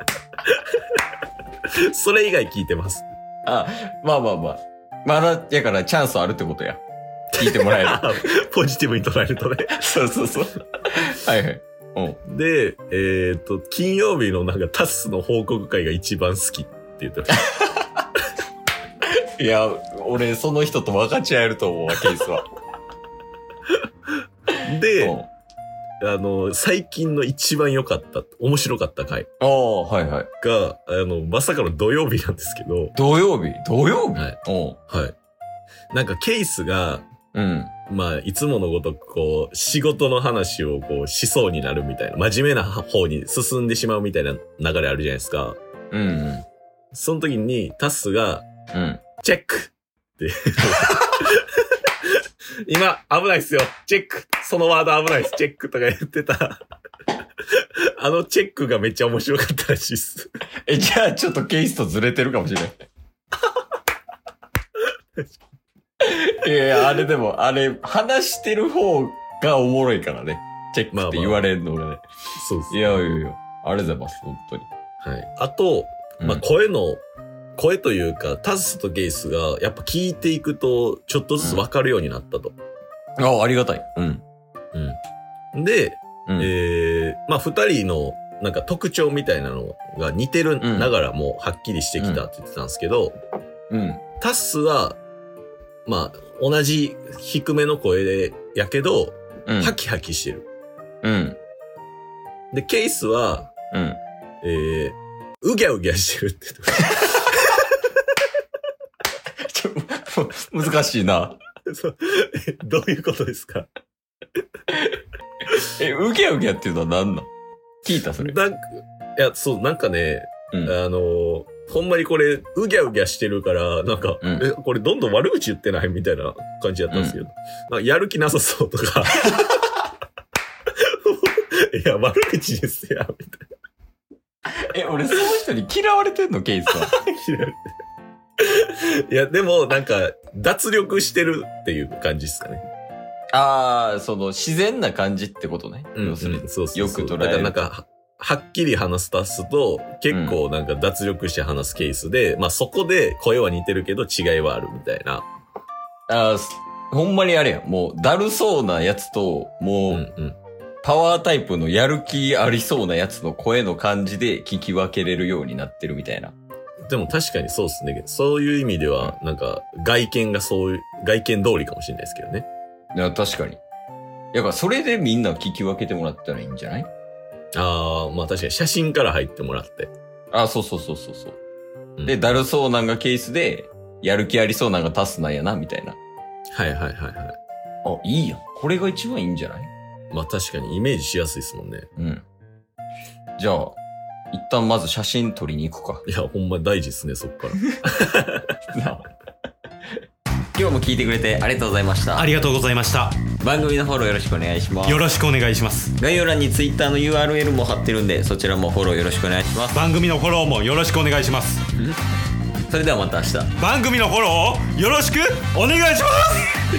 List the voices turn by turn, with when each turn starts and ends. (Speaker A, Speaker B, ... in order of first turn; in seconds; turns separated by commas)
Speaker A: 1.9-3.1, Speaker B: 3.5-6.8, Speaker A: 7.3-9.8, Speaker B: 7.4-8.2, Speaker B: 9.8-12.2, Speaker A: 12.3-17.4, Speaker B: 17.4-18.1, Speaker B: 19.1-22.4, Speaker A: 24.6-25.2, Speaker B: 25.0-25.3, Speaker A: 26.0-29.3, Speaker B: 29.4-30.3, Speaker A: 30.4-33.0, Speaker B: 33.0-34.8, Speaker A: 34.1-35.1, Speaker A: 35.9-37.1, Speaker B: 37.3-37.7, Speaker A: 37.9-45.6, Speaker B: 45.9-46.5, Speaker A: 46.9-48.5, Speaker B: 48.7-49.0, Speaker A: 49.2-51.5, Speaker A: 52.6-56.6, Speaker A: 57.6-60.3, Speaker B: 60.6-62.8, Speaker B: 66.0-72.0, Speaker A: 70.9-71.5, Speaker A: 72.4-73.0, Speaker B: 72.7-74.7, Speaker A: 75.0-77.0, Speaker A: 77.6-82.6, Speaker B: 81.4-81.6, Speaker B: 83.2-84.2, Speaker A: 84.7-85.0, Speaker A: 85.5-93.2, Speaker B: 90.6-90.9, Speaker B: 92.0-92.2, Speaker B: 93.7-94.0, Speaker A: 94.2-95.0, Speaker A: 95.9-100.5, Speaker B: 99.5-99.8, Speaker B: 101.0-101.4, Speaker A: 102.5-103.5, Speaker B: 103.7-104.0, Speaker A: 104.4-107.6, Speaker B: 109.5-111.4, Speaker A: 111.7-113.7, Speaker B: 114.7-117.3, Speaker B: 117.8-118.4, Speaker A: 118.2-129.5, Speaker B: 126.9-127.2, Speaker A: 131.0-133.4, Speaker B: 134.5-136.9, Speaker A: 136.8-137.6, Speaker A: 138.4-142.6, Speaker B: 143.3-147.6, Speaker A: 146.0-155.3, Speaker B: 150.1-150.4, Speaker B: 156.1-160.1, Speaker A: 159.9-160.4, Speaker B: 160.8-166.3, Speaker A: 166.9-172.5, Speaker B: 172.9-173.6, Speaker B: 174.3-176.9, Speaker A: 177.6-179.9, Speaker B: 180.3-181.4, Speaker B: 182.1-186.0, Speaker A: 186.6-187.4, Speaker B: 187.8-189.7, Speaker A: 190.1-191.9, Speaker B: 192.0-192.2, Speaker B: 193.4-193.8, Speaker B: 194.3-196.1, Speaker A: 196.1-198.5, Speaker B: 198.7-199.1, Speaker B: 200.6-202.3, Speaker C: 202.2-203.2, Speaker B: 203.4-205.1, Speaker C: 204.9-205.9, Speaker B: 205.9-209.8, Speaker C: 209.7-211.7, Speaker B: 212.7-213.6, Speaker C: 213.6-216.5